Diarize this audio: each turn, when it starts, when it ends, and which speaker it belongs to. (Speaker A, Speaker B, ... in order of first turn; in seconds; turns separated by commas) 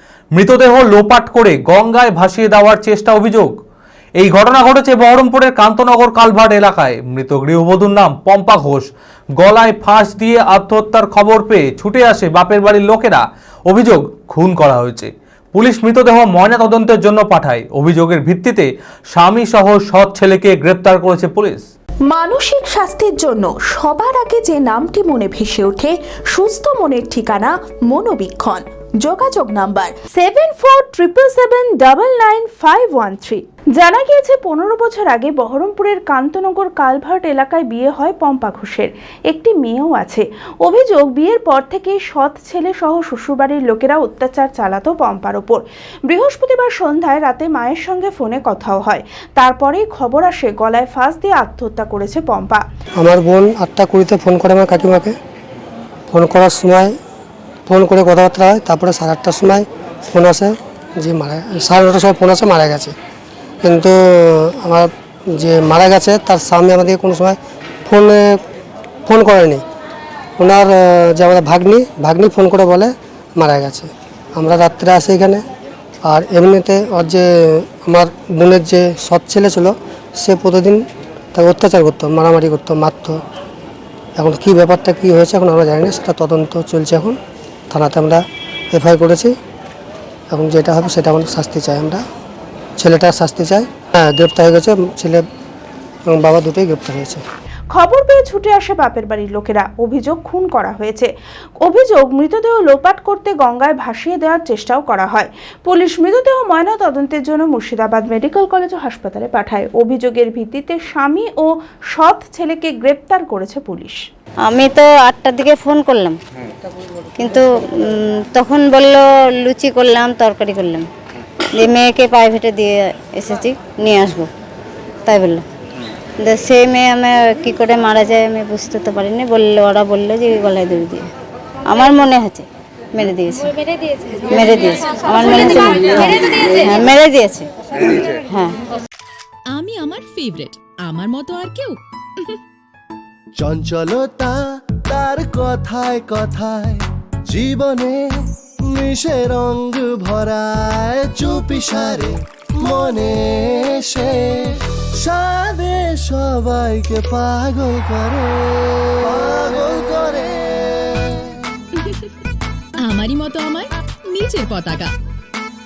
Speaker A: 0.3-3.5, Speaker A: 4.2-21.7, Speaker B: 30.0-52.6, Speaker C: 53.0-55.1, Speaker C: 56.1-56.9, Speaker C: 57.7-62.9, Speaker C: 63.6-68.4, Speaker C: 69.1-69.6, Speaker C: 70.4-75.4, Speaker C: 76.0-80.8, Speaker C: 81.3-83.2, Speaker C: 84.2-87.2, Speaker C: 87.7-89.3, Speaker C: 90.3-92.0, Speaker C: 92.8-95.2, Speaker C: 96.1-97.2, Speaker B: 97.7-114.0, Speaker D: 114.5-116.2, Speaker D: 117.2-120.9, Speaker D: 121.6-124.3, Speaker D: 125.1-125.5, Speaker D: 126.2-131.0, Speaker D: 131.7-133.6, Speaker D: 134.3-138.6, Speaker E: 139.5-142.4, Speaker F: 143.4-148.1, Speaker F: 148.7-161.4, Speaker E: 161.8-162.1, Speaker E: 162.8-164.9